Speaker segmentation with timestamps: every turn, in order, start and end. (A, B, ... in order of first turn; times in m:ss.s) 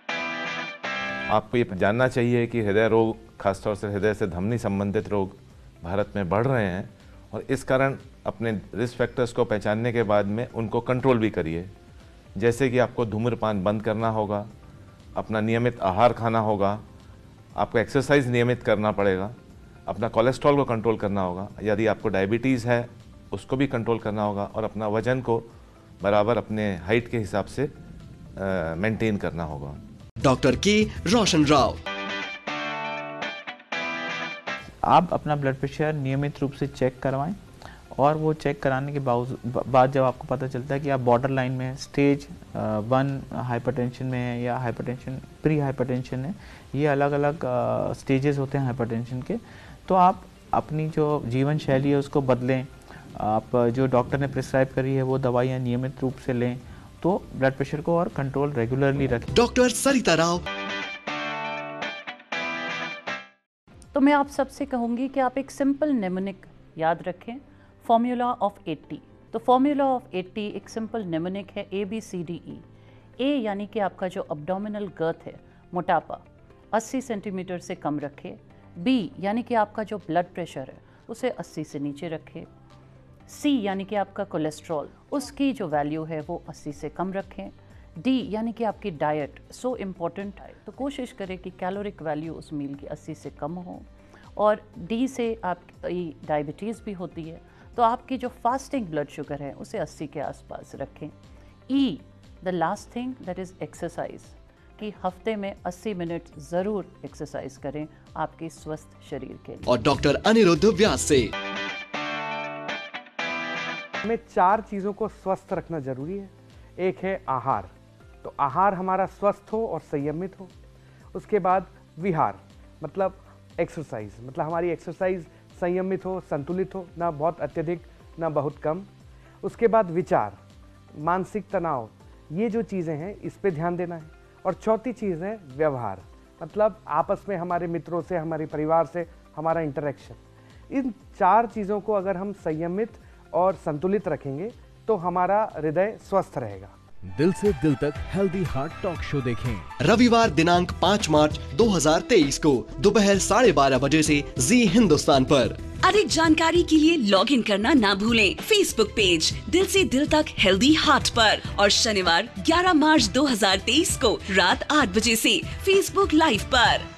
0:01.3-0:11.7 A
0:12.4-0:14.5 A
0:15.2-0:16.8 A
0:17.6-0:19.4 A
0:19.9-0:25.5 A
0:26.0-0:27.7 A
0:28.4-0:29.8 A
0:30.2-0:31.8 B
0:34.8-0:37.4 C
0:37.9-0:59.3 C
0:59.4-1:00.4 B
1:03.9-1:12.6 D
1:13.2-1:22.5 D
1:23.3-1:41.1 D
1:41.7-1:49.7 D
1:49.7-1:51.3 B
1:54.0-1:57.7 E
1:58.2-2:00.5 E
2:01.1-2:08.9 E
2:09.4-2:10.4 E
2:11.0-2:20.2 E
2:20.7-2:26.7 E
2:27.2-2:29.5 F
2:29.8-2:35.6 B
2:35.8-2:46.9 G